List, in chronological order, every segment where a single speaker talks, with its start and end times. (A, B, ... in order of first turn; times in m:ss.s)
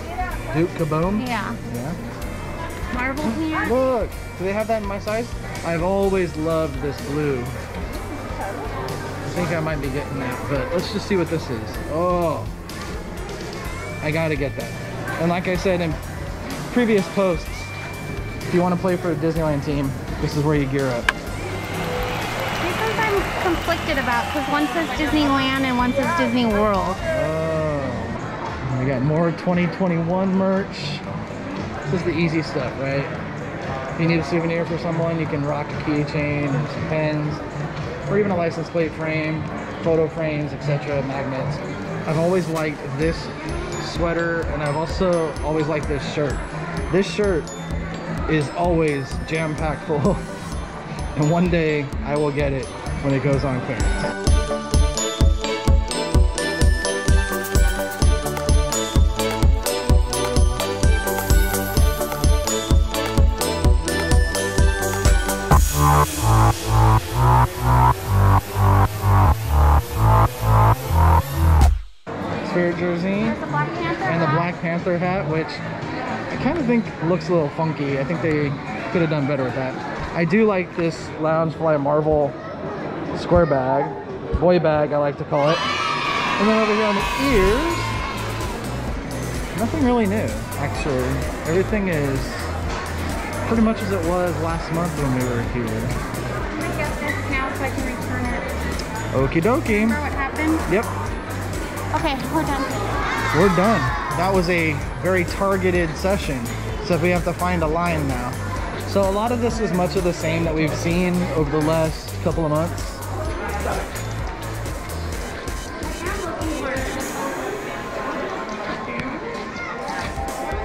0:00.5-0:02.0 A
0:01.1-0:01.6 B
0:02.9-0:03.9 B
0:03.2-0:07.6 A
0:09.2-0:12.5 A
0:14.0-0:16.0 A
0:16.7-0:17.7 A
0:18.5-0:21.1 A
0:22.6-0:27.0 B
0:27.1-0:31.0 A
0:31.8-0:33.1 A
0:34.0-0:37.4 A
0:38.1-0:47.5 A
0:48.3-0:50.3 A
0:51.1-0:54.1 A
1:12.4-1:13.4 A
1:13.2-1:14.5 B
1:14.0-1:15.6 A
1:16.3-1:22.4 A
1:23.1-1:25.6 A
1:26.4-1:28.0 A
1:29.5-1:32.5 A
1:33.4-1:36.0 A
1:36.5-1:38.5 B
1:39.1-1:40.0 A
1:39.6-1:40.6 B
1:40.7-1:40.9 A
1:41.9-1:42.9 B
1:43.3-1:53.0 A
1:55.8-1:57.2 B
1:58.9-1:59.2 B